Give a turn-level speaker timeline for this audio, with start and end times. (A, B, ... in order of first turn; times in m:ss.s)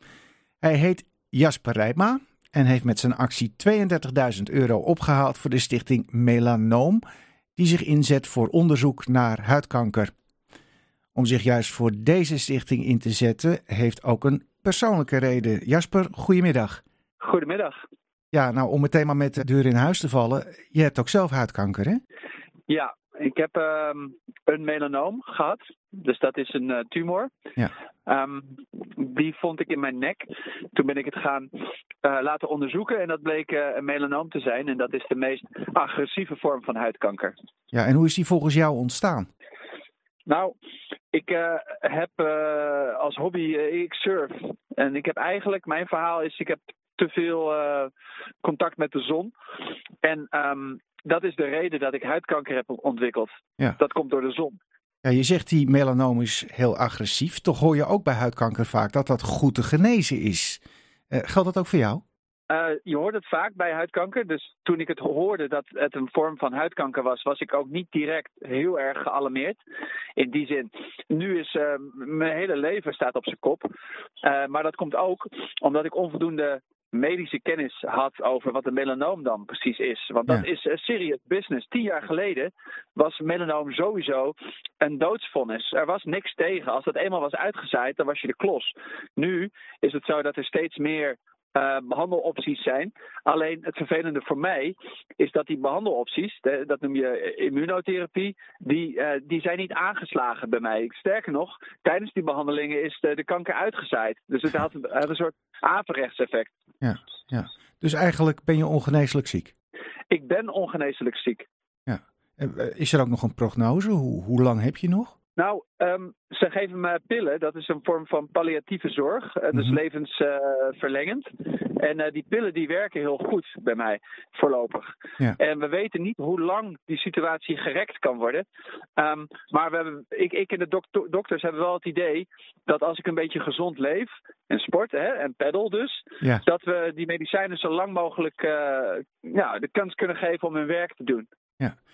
0:00.6-0:07.0 A
0:07.6-0:10.1 A
0:11.1-0:16.8 A
0:17.2-0:17.8 B
0:18.3-0:22.0 A
0:22.7-0:27.3 B
0:28.1-0:31.5 B
0:32.0-0:37.3 B
0:37.7-0:39.3 A
0:40.2-0:40.5 B
0:41.1-0:47.9 B
0:48.4-0:49.3 B
0:50.0-0:54.6 B
0:55.0-1:02.0 A
1:02.5-1:09.6 B
1:10.2-1:13.7 B
1:14.2-1:46.5 B
1:46.8-1:49.5 A
1:50.1-1:51.5 B
1:51.9-1:55.1 A
1:55.4-2:08.4 B
2:09.0-2:21.3 B